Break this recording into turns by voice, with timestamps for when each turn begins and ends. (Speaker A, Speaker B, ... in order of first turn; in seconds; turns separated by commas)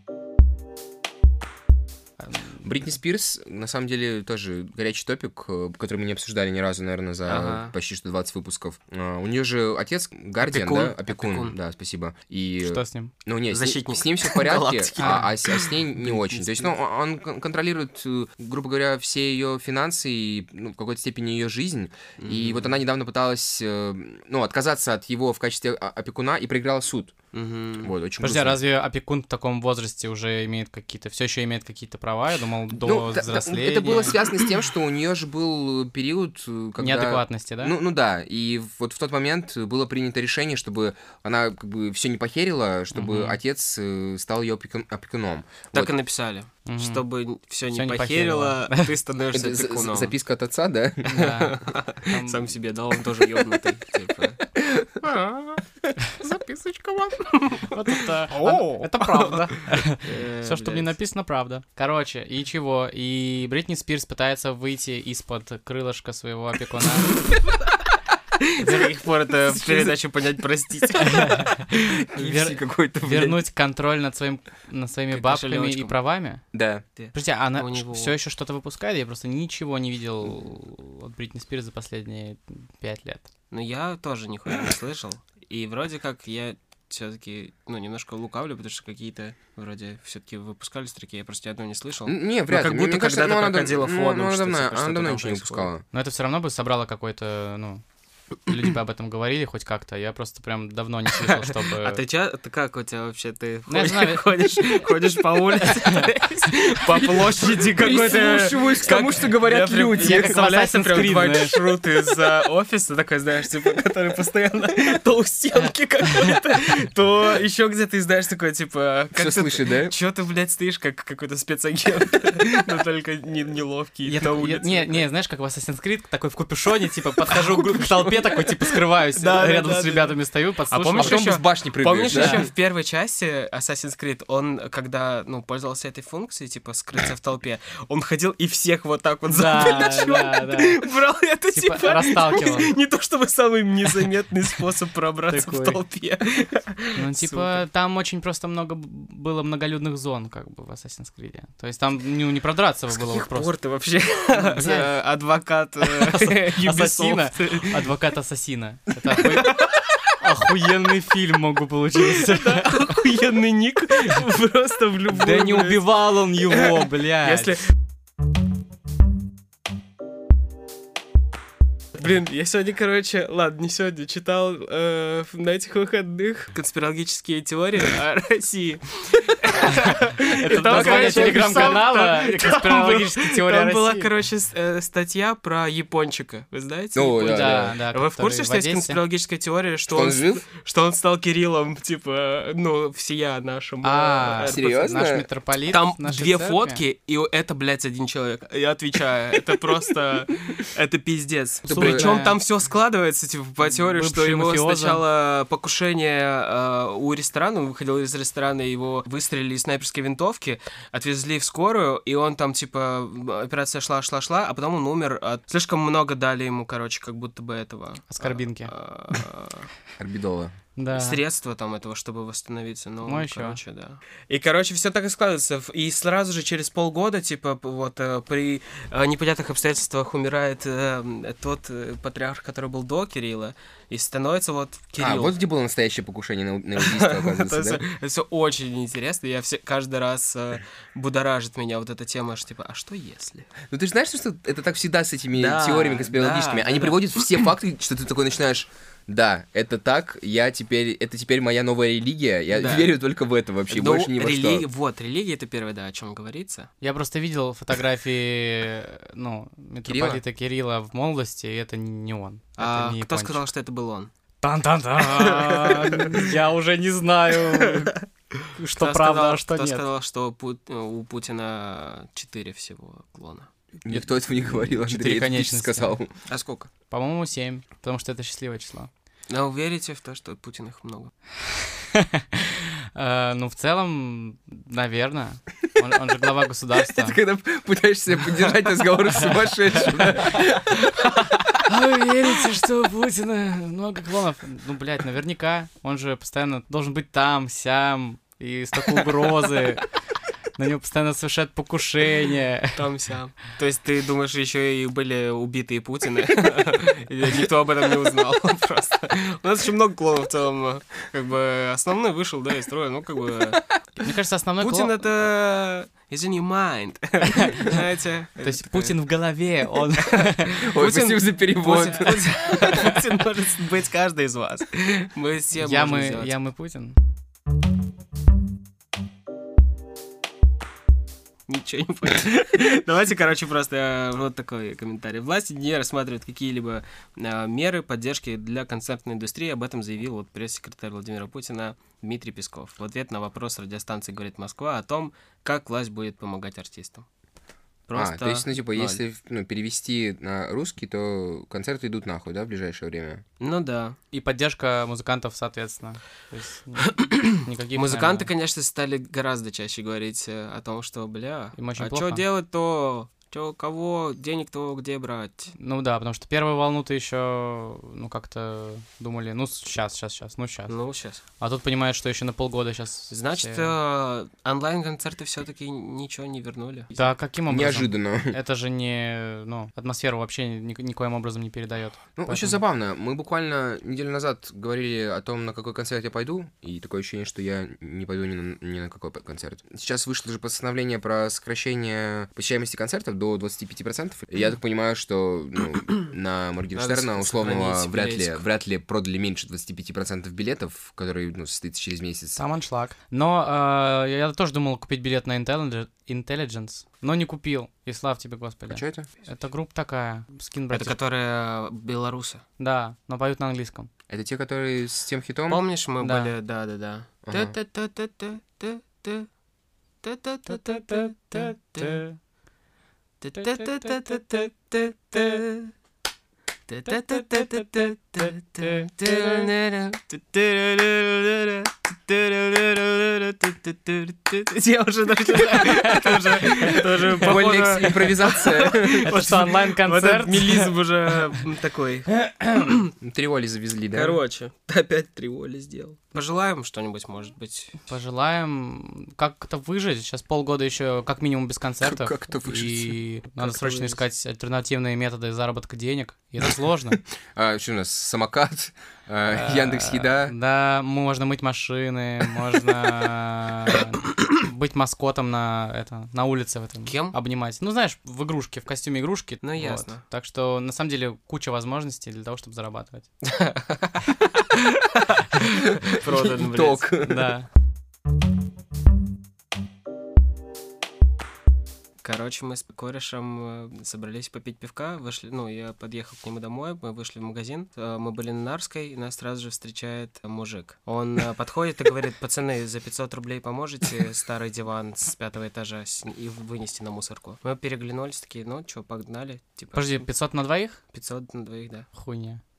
Speaker A: 2.2-2.6, Speaker B: 2.6-27.1, Speaker C: 7.2-7.7, Speaker C: 10.4-11.6, Speaker A: 12.6-13.1, Speaker C: 13.5-16.8, Speaker A: 15.0-15.3, Speaker C: 22.2-22.8, Speaker C: 27.3-27.9, Speaker B: 27.8-28.6, Speaker A: 28.2-34.2, Speaker B: 32.7-45.9, Speaker A: 36.8-37.8, Speaker A: 42.9-43.4, Speaker C: 45.7-50.1, Speaker A: 46.6-47.0, Speaker A: 47.7-48.9, Speaker B: 49.3-51.3, Speaker A: 51.1-52.5, Speaker C: 51.1-54.4, Speaker B: 54.6-55.0, Speaker C: 55.0-55.4, Speaker B: 56.3-57.2, Speaker C: 57.2-57.8, Speaker A: 57.7-67.2, Speaker C: 58.3-61.0, Speaker C: 68.4-71.8, Speaker A: 68.6-68.9, Speaker B: 69.6-69.9, Speaker A: 71.0-76.4, Speaker B: 71.8-73.4, Speaker C: 75.1-75.9, Speaker B: 76.5-76.8, Speaker C: 77.0-78.1, Speaker A: 77.1-83.3, Speaker C: 83.5-95.7, Speaker B: 92.1-95.8, Speaker A: 95.9-97.8, Speaker A: 98.4-102.0, Speaker C: 101.2-125.0, Speaker A: 103.7-104.6, Speaker B: 107.0-110.4, Speaker A: 107.9-109.3, Speaker A: 109.9-111.6, Speaker B: 119.2-119.9, Speaker A: 124.0-131.2, Speaker C: 127.2-130.2, Speaker C: 130.7-147.6, Speaker B: 131.0-132.4, Speaker A: 132.1-132.4, Speaker A: 139.3-140.8, Speaker A: 141.5-142.8, Speaker A: 145.3-145.8, Speaker A: 146.9-153.5, Speaker C: 152.9-157.9, Speaker A: 154.3-154.9, Speaker A: 155.8-162.9, Speaker C: 159.2-159.8, Speaker C: 162.0-165.8, Speaker A: 165.1-167.6, Speaker C: 166.5-167.6, Speaker C: 171.9-194.7, Speaker A: 180.2-184.1, Speaker B: 180.7-181.1, Speaker B: 186.9-187.8, Speaker A: 187.2-189.0, Speaker B: 189.9-190.4, Speaker A: 193.8-196.8, Speaker B: 194.4-195.2, Speaker C: 195.7-219.7, Speaker A: 201.7-202.4, Speaker B: 201.7-202.2, Speaker A: 203.7-205.0, Speaker A: 218.1-218.7, Speaker B: 220.0-220.5, Speaker A: 220.8-221.2, Speaker C: 220.9-235.4, Speaker A: 223.0-223.6, Speaker B: 235.0-237.8, Speaker C: 236.8-243.5, Speaker B: 243.7-254.7, Speaker C: 245.3-247.4, Speaker C: 252.5-252.9, Speaker C: 253.7-256.7, Speaker A: 256.8-263.4, Speaker B: 259.9-260.2, Speaker C: 262.6-264.1, Speaker A: 264.4-268.0, Speaker C: 265.0-266.4, Speaker C: 267.5-273.5, Speaker A: 268.5-269.9, Speaker B: 273.8-276.1, Speaker A: 273.9-275.9, Speaker C: 276.3-276.7, Speaker A: 276.9-278.9, Speaker C: 279.3-281.1, Speaker A: 281.4-287.2, Speaker B: 286.9-290.6, Speaker C: 290.0-291.5, Speaker A: 290.1-290.4, Speaker A: 291.6-299.9, Speaker A: 300.6-302.9, Speaker C: 302.8-313.6, Speaker A: 314.0-314.9, Speaker C: 314.6-319.0, Speaker A: 317.3-317.8, Speaker A: 318.4-320.6, Speaker C: 319.8-326.3, Speaker B: 320.6-322.7, Speaker A: 322.6-323.0, Speaker A: 325.5-326.9, Speaker C: 331.5-347.1, Speaker C: 347.9-349.0, Speaker B: 347.9-353.2, Speaker C: 353.4-354.0, Speaker A: 354.1-358.3, Speaker C: 356.8-365.5, Speaker A: 361.6-362.2, Speaker A: 365.6-370.8, Speaker C: 370.7-371.2, Speaker A: 371.4-373.7, Speaker C: 373.1-377.1, Speaker A: 376.9-382.6, Speaker B: 377.5-378.4, Speaker B: 382.1-402.4, Speaker C: 396.8-398.4, Speaker A: 402.4-410.9, Speaker B: 408.7-409.1, Speaker C: 410.7-412.4, Speaker A: 412.6-413.9, Speaker B: 414.1-415.6, Speaker C: 415.5-419.3, Speaker A: 416.0-416.3, Speaker B: 417.2-417.5, Speaker C: 420.0-422.0, Speaker A: 421.8-422.1, Speaker C: 423.2-425.7, Speaker C: 426.7-442.9, Speaker A: 435.5-438.0, Speaker B: 437.2-439.1, Speaker A: 438.6-440.8, Speaker B: 443.0-444.2, Speaker C: 443.9-447.9, Speaker A: 447.9-457.0, Speaker B: 451.8-452.9, Speaker C: 453.4-454.0, Speaker B: 457.4-460.3, Speaker A: 459.3-473.1, Speaker C: 466.9-467.1, Speaker C: 469.4-470.0, Speaker C: 473.2-476.9, Speaker B: 475.6-477.3, Speaker A: 477.0-477.5, Speaker C: 482.0-500.1, Speaker A: 499.7-500.8, Speaker C: 500.9-501.9, Speaker A: 501.9-502.4